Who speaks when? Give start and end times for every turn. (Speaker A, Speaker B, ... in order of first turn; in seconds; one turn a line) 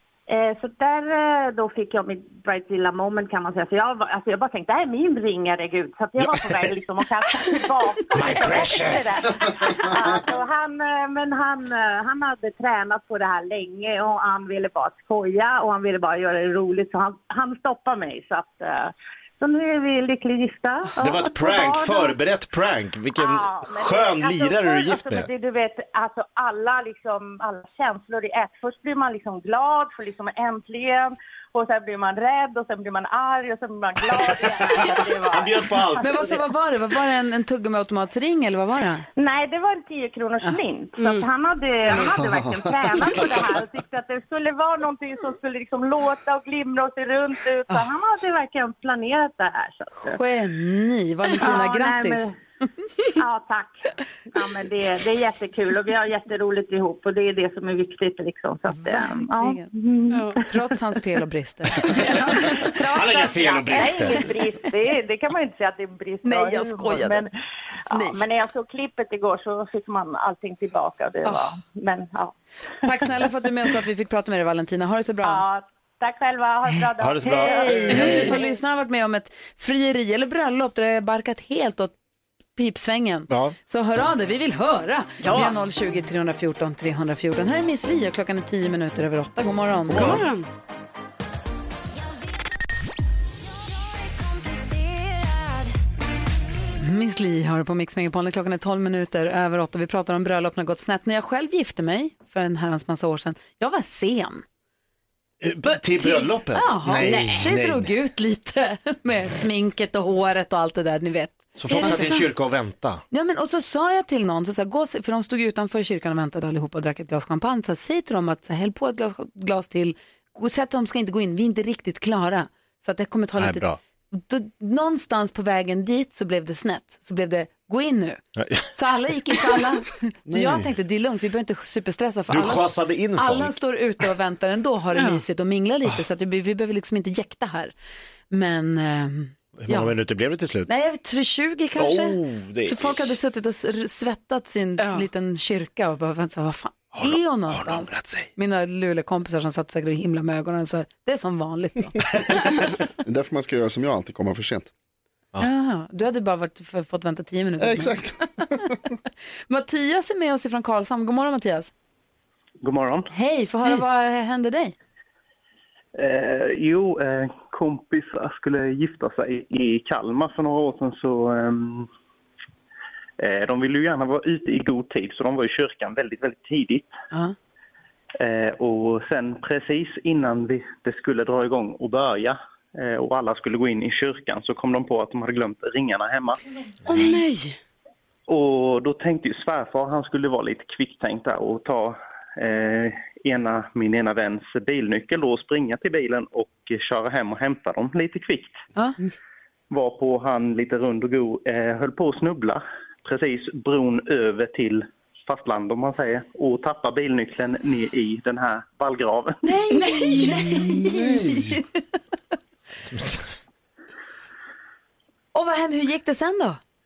Speaker A: 0.3-22.1
Speaker B: 6.2-6.6
Speaker B: 8.1-9.3
Speaker B: 21.0-25.3
Speaker A: 23.2-36.4
Speaker B: 34.8-36.3
Speaker C: 36.0-39.0
Speaker A: 39.2-50.2
Speaker D: 41.0-41.2
Speaker C: 50.0-52.3
Speaker A: 51.4-52.4
Speaker A: 53.2-60.4
Speaker C: 58.7-59.7
Speaker D: 60.1-60.4
Speaker C: 60.4-62.6
Speaker A: 62.1-67.3
Speaker B: 62.9-64.3
Speaker C: 66.2-67.2
Speaker A: 67.9-72.3
Speaker C: 67.9-68.2
Speaker C: 72.8-75.4
Speaker A: 75.2-78.5
Speaker B: 77.0-78.3
Speaker C: 77.2-81.9
Speaker C: 82.6-90.2
Speaker B: 83.3-83.5
Speaker D: 85.2-85.5
Speaker D: 89.9-90.5
Speaker C: 96.8-104.4
Speaker B: 105.4-107.9
Speaker C: 106.0-112.3
Speaker D: 107.0-107.5
Speaker B: 111.6-113.0
Speaker D: 111.7-112.0
Speaker C: 113.1-128.2
Speaker B: 123.4-123.8
Speaker B: 128.4-128.7
Speaker C: 128.7-137.7
Speaker E: 130.3-130.7
Speaker B: 132.3-133.6
Speaker D: 135.0-135.2
Speaker C: 138.3-140.0
Speaker B: 139.6-140.7
Speaker C: 140.7-152.0
Speaker B: 141.8-143.2
Speaker D: 144.8-145.1
Speaker B: 146.9-148.3
Speaker E: 153.0-154.7
Speaker C: 155.4-158.5
Speaker E: 157.6-158.7
Speaker C: 159.5-161.7
Speaker F: 162.6-163.1
Speaker C: 163.1-164.7
Speaker F: 166.0-171.9
Speaker F: 173.2-176.9
Speaker F: 178.2-186.4
Speaker B: 186.9-187.2
Speaker D: 186.9-187.6
Speaker F: 188.3-198.6
Speaker F: 199.7-209.4
Speaker C: 209.4-211.7
Speaker D: 209.7-210.5
Speaker E: 210.7-211.6
Speaker B: 212.8-213.2
Speaker C: 215.3-216.6